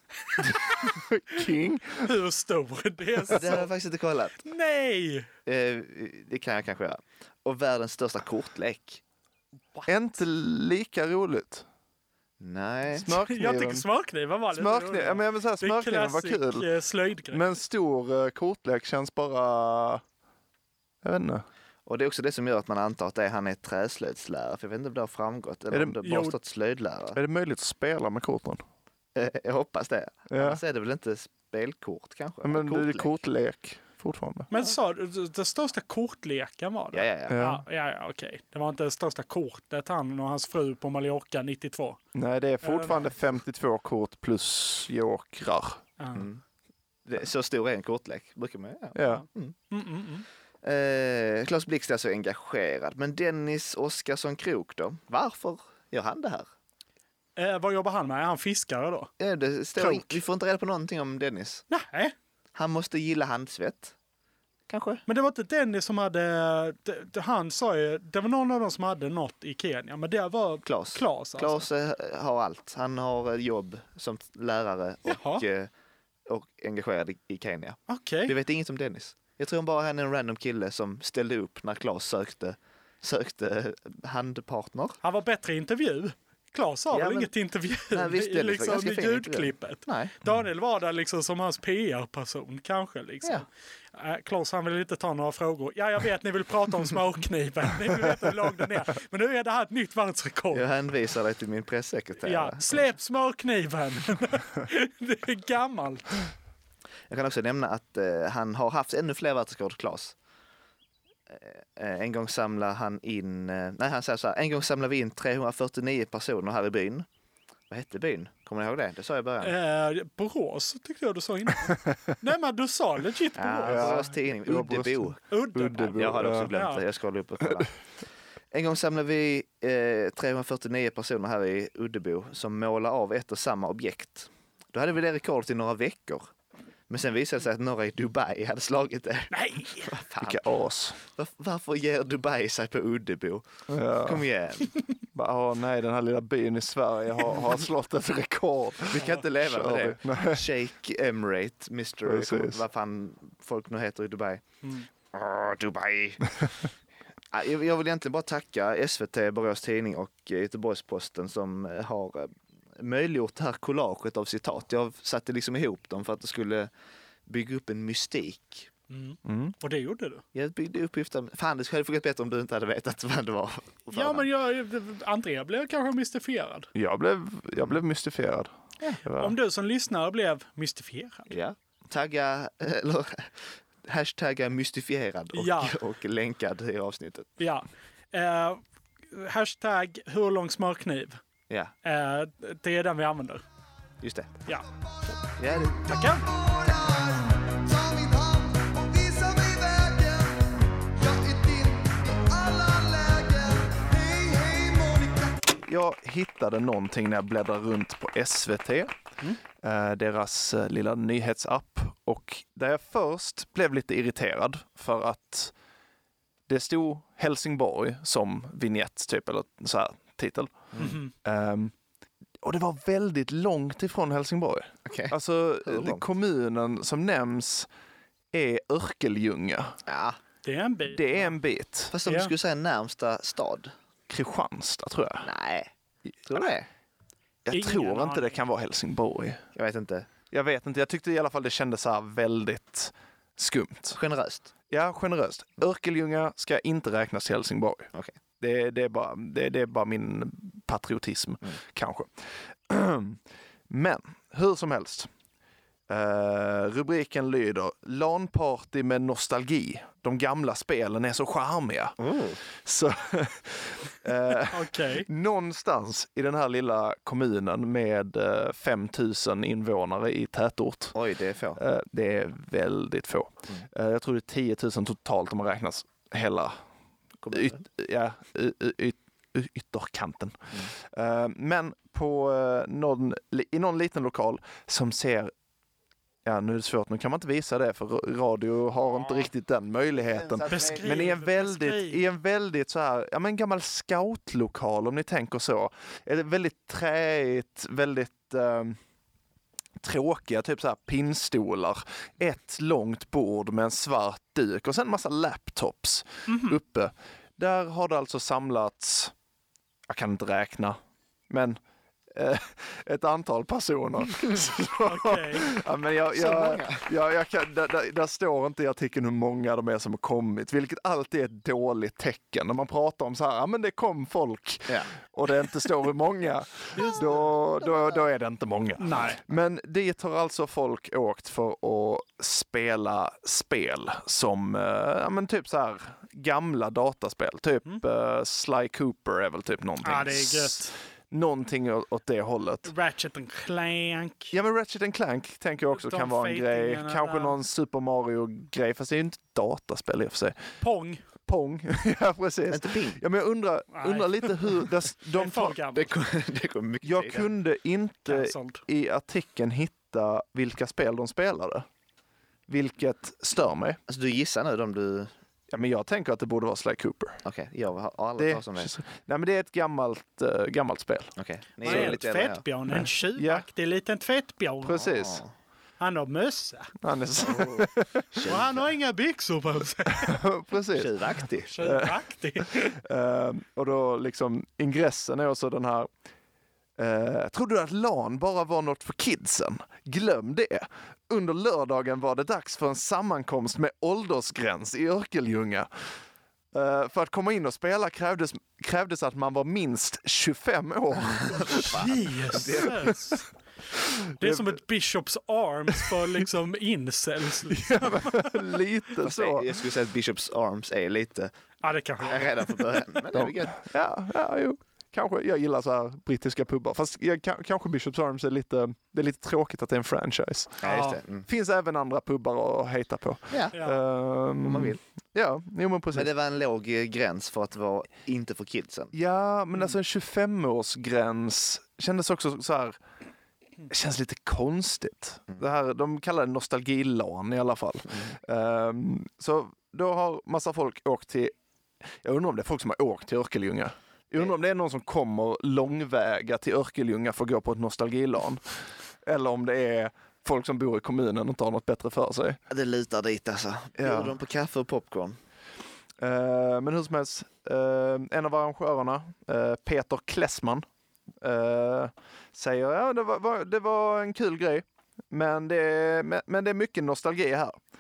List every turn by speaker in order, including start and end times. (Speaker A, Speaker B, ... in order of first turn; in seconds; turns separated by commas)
Speaker A: 0.4-2.1, Speaker B: 2.0-3.7, Speaker C: 3.3-4.4, Speaker B: 4.4-5.3, Speaker C: 5.5-9.0, Speaker A: 9.8-11.7, Speaker C: 12.4-13.1, Speaker A: 12.9-13.8, Speaker B: 13.2-17.5, Speaker A: 14.5-16.7, Speaker A: 17.3-20.0, Speaker A: 21.0-21.4, Speaker C: 21.9-27.2, Speaker A: 25.7-26.0, Speaker B: 26.0-26.4, Speaker A: 27.1-28.6, Speaker C: 29.1-33.1, Speaker A: 30.3-30.6, Speaker A: 32.4-34.5, Speaker B: 34.5-42.0, Speaker C: 36.9-37.4, Speaker A: 37.3-37.6, Speaker A: 42.1-45.8, Speaker B: 42.6-43.0, Speaker B: 46.0-46.2, Speaker C: 46.1-46.4, Speaker C: 47.0-49.5, Speaker A: 48.9-49.2, Speaker B: 49.1-50.2, Speaker C: 50.6-56.5, Speaker B: 57.4-59.1, Speaker C: 59.2-61.6, Speaker B: 61.7-62.1, Speaker C: 62.5-63.9, Speaker C: 64.7-65.0, Speaker B: 65.1-71.7, Speaker C: 70.6-75.7, Speaker B: 75.1-75.4, Speaker C: 76.3-85.0, Speaker B: 77.9-78.3, Speaker B: 85.0-100.7, Speaker C: 86.9-87.3, Speaker C: 87.9-90.1, Speaker C: 100.5-102.8, Speaker B: 102.2-106.2, Speaker C: 107.1-110.1, Speaker C: 111.3-117.0, Speaker C: 117.7-119.5, Speaker B: 119.4-123.9, Speaker C: 123.4-125.2, Speaker A: 123.6-126.5, Speaker B: 125.3-126.8, Speaker C: 125.9-127.8, Speaker C: 128.5-136.3, Speaker C: 136.9-140.4, Speaker B: 139.3-139.9, Speaker A: 140.2-141.0, Speaker C: 141.0-143.5, Speaker A: 143.7-144.3, Speaker C: 144.0-144.8, Speaker A: 145.1-150.4, Speaker C: 148.9-154.4, Speaker A: 152.0-152.6, Speaker C: 155.1-156.5, Speaker C: 157.3-166.7, Speaker C: 167.3-168.7, Speaker B: 168.9-170.2, Speaker A: 169.2-169.5, Speaker C: 170.3-174.2, Speaker B: 173.9-176.7, Speaker A: 176.7-178.5, Speaker A: 179.0-179.3, Speaker B: 179.2-181.3, Speaker C: 181.3-187.3, Speaker B: 185.3-185.7, Speaker B: 187.4-191.2, Speaker B: 191.8-193.4, Speaker C: 194.0-194.4, Speaker C: 195.2-196.0, Speaker B: 195.8-196.3, Speaker C: 197.8-198.3, Speaker C: 198.9-199.9, Speaker C: 202.3-203.4, Speaker C: 204.2-205.1, Speaker A: 205.6-208.9, Speaker A: 209.6-215.5, Speaker A: 216.5-220.7, Speaker B: 220.8-221.1, Speaker A: 221.2-221.7, Speaker A: 222.4-227.7, Speaker C: 224.8-226.0, Speaker A: 228.3-229.8, Speaker C: 229.8-230.2, Speaker B: 230.4-231.3, Speaker A: 230.9-231.9, Speaker C: 231.9-233.7, Speaker B: 232.0-232.3, Speaker A: 234.1-235.3, Speaker C: 235.2-235.7, Speaker C: 236.3-236.7, Speaker A: 237.4-239.4, Speaker B: 237.5-238.3, Speaker C: 239.5-240.1, Speaker A: 240.3-244.0, Speaker C: 243.9-244.5, Speaker A: 244.7-255.1, Speaker A: 255.9-270.9, Speaker C: 262.0-262.4, Speaker B: 264.4-265.1, Speaker C: 270.9-271.6, Speaker A: 271.6-276.6, Speaker C: 277.2-277.6, Speaker A: 277.3-285.3, Speaker A: 286.2-298.8, Speaker C: 289.9-291.1, Speaker B: 290.5-292.0, Speaker A: 299.8-309.1, Speaker B: 306.3-306.6, Speaker A: 309.9-310.8, Speaker A: 311.3-311.6, Speaker A: 312.1-342.7, Speaker B: 314.9-315.5, Speaker C: 316.1-316.8, Speaker B: 326.8-327.0, Speaker B: 328.8-329.2, Speaker B: 339.8-340.8, Speaker B: 342.6-344.3, Speaker A: 344.3-350.5, Speaker B: 345.7-347.4, Speaker B: 350.6-351.0, Speaker A: 351.2-355.6, Speaker C: 352.5-353.0, Speaker B: 353.7-354.4, Speaker B: 355.1-355.9, Speaker C: 355.7-357.3, Speaker A: 356.8-361.6, Speaker B: 358.1-358.6, Speaker A: 362.5-363.8, Speaker C: 363.9-365.1, Speaker A: 365.5-367.2, Speaker C: 367.2-368.7, Speaker A: 368.2-371.1, Speaker C: 371.2-372.4, Speaker B: 371.6-374.8, Speaker A: 371.6-372.0, Speaker A: 372.7-373.4, Speaker A: 374.6-375.2, Speaker C: 374.8-375.3, Speaker B: 375.8-376.7, Speaker A: 376.8-378.2, Speaker C: 377.2-378.7, Speaker B: 378.2-380.1, Speaker A: 379.9-385.9, Speaker C: 380.7-381.5, Speaker B: 381.5-382.7, Speaker A: 386.8-395.7, Speaker A: 396.5-401.7, Speaker C: 401.1-403.0, Speaker B: 401.3-403.2, Speaker B: 404.2-408.3, Speaker A: 404.2-404.6, Speaker A: 407.5-409.5, Speaker C: 409.0-411.3, Speaker B: 411.6-412.6, Speaker C: 412.0-413.6, Speaker A: 413.1-420.7, Speaker C: 420.6-421.2, Speaker B: 420.6-421.0, Speaker A: 421.2-426.1, Speaker B: 423.5-423.8, Speaker C: 424.4-424.8, Speaker C: 425.9-428.9, Speaker A: 428.9-432.8, Speaker A: 433.7-441.3, Speaker C: 437.9-438.1, Speaker A: 442.0-448.4, Speaker A: 449.0-452.4, Speaker C: 452.5-455.2, Speaker A: 453.8-454.2, Speaker A: 456.0-460.6, Speaker A: 461.2-467.6